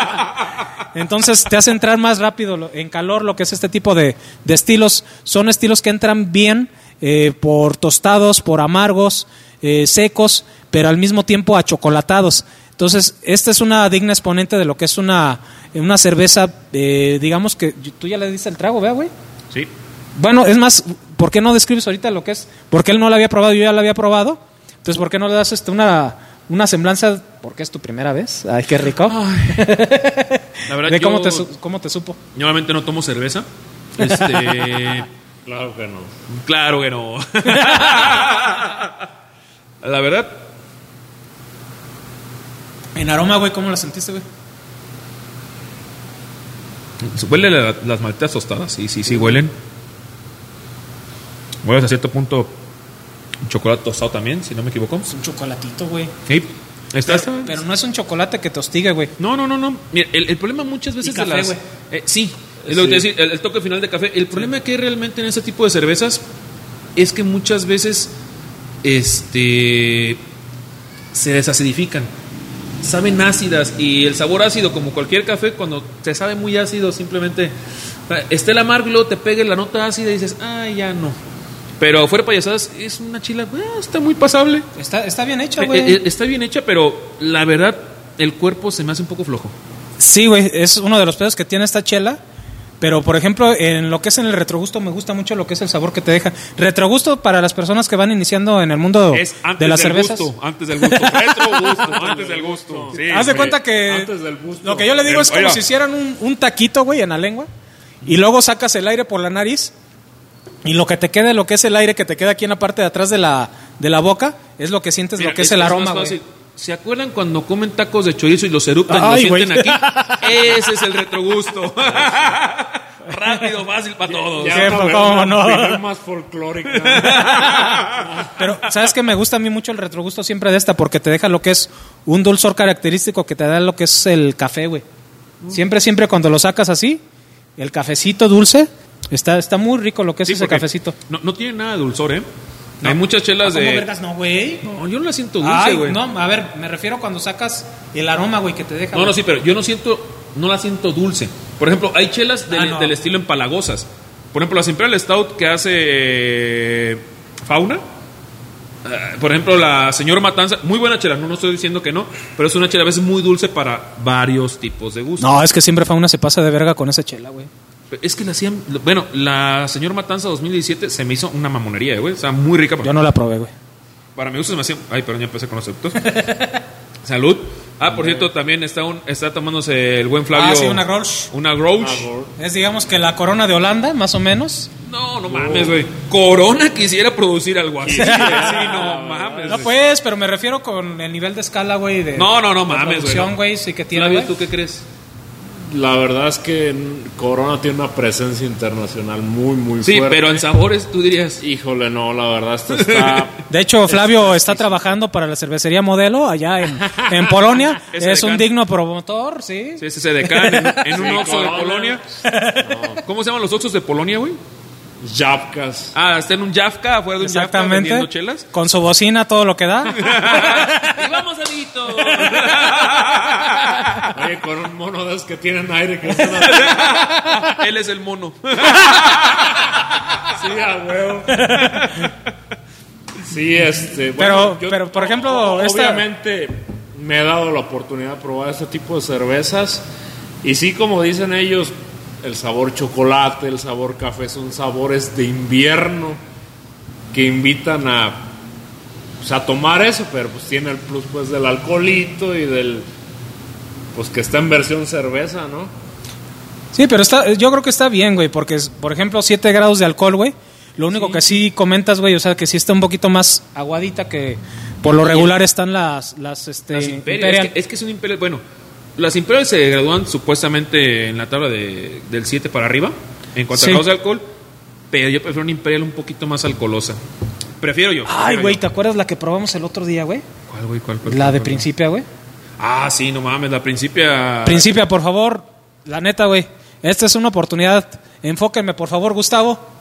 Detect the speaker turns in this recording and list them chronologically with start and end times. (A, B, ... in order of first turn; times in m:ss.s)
0:00.9-0:19.1 A
0:20.2-0:32.2 A
0:29.0-0:29.6 B
0:30.6-0:31.5 B
0:32.3-0:33.4 B
0:34.0-0:35.1 B
0:34.0-0:34.8 A
0:35.4-0:36.1 C
0:36.4-0:38.9 B
0:39.8-0:40.4 B
0:42.9-0:44.2 A
0:47.1-0:49.5 B
0:51.6-0:52.5 B
0:53.4-0:55.1 B
0:55.1-0:56.1 A
0:56.3-0:57.6 B
0:57.0-0:59.1 A
0:59.2-1:06.2 B
1:01.0-1:01.6 A
1:02.7-1:03.0 A
1:07.0-1:08.1 B
1:08.8-1:10.2 B
1:11.1-1:12.1 B
1:12.8-1:17.5 B
1:18.1-1:21.2 B
1:21.8-1:24.7 B
1:24.8-1:26.0 A
1:25.6-1:29.5 B
1:30.0-1:32.2 A
1:32.8-1:41.4 A
1:39.1-1:43.6 B
1:41.8-1:45.0 C
1:42.9-1:44.1 A
1:44.6-1:47.5 A
1:45.0-1:45.6 B
1:48.0-1:49.7 A
1:50.6-1:56.2 A
1:55.2-2:04.8 B
1:58.9-2:00.4 A
2:04.0-2:07.4 C
2:04.4-2:05.8 A
2:06.7-2:08.0 B
2:08.0-2:08.3 C
2:08.4-2:14.8 A
2:15.5-2:17.0 A
2:17.6-2:20.9 A
2:20.2-2:22.3 B
2:22.8-2:23.9 B
2:22.8-2:24.6 A
2:24.6-2:26.0 B
2:25.4-2:29.2 A
2:28.9-2:37.8 B
2:32.5-2:33.0 A
2:38.8-2:45.4 B
2:45.2-2:47.5 A
2:47.9-2:52.9 B
2:52.8-2:53.5 A
2:54.2-2:56.2 B
2:56.0-2:56.5 A
2:57.0-3:02.1 B
2:57.9-2:58.3 C
3:00.3-3:01.3 A
3:01.8-3:02.3 C
3:02.4-3:04.7 A
3:04.8-3:09.7 B
3:05.3-3:05.8 C
3:07.8-3:09.7 C
3:08.0-3:08.9 A
3:09.5-3:14.3 A
3:12.1-3:13.3 B
3:13.9-3:14.8 B
3:15.6-3:20.4 C
3:19.8-3:21.4 B
3:21.4-3:23.4 C
3:22.7-3:23.4 B
3:23.5-3:31.1 A
3:23.9-3:24.8 C
3:27.0-3:27.3 C
3:27.9-3:28.5 B
3:29.8-3:32.0 B
3:30.9-3:32.0 C
3:32.2-3:32.8 A
3:32.6-3:33.0 C
3:33.0-3:34.4 B
3:35.0-3:35.9 C
3:35.9-3:38.5 B
3:37.2-3:41.0 A
3:39.9-3:44.1 B
3:44.1-3:47.0 C
3:46.3-3:50.2 B
3:50.3-3:51.5 C
3:51.4-3:51.9 A
3:51.5-3:52.1 B
3:53.2-3:59.8 C
3:54.2-3:56.0 A
4:00.4-4:06.2 C
4:07.1-4:08.3 C
4:09.2-4:12.9 C
4:13.9-4:15.7 C
4:16.7-4:27.5 A
4:20.9-4:21.3 B
4:24.8-4:25.3 B
4:26.7-4:28.4 B
4:29.0-4:34.2 B
4:33.5-4:33.8 A
4:34.9-4:37.0 B
4:37.6-4:38.6 B
4:38.0-4:40.2 A
4:40.5-4:41.6 B
4:41.0-4:42.0 A
4:42.6-4:44.7 B
4:44.4-4:49.6 A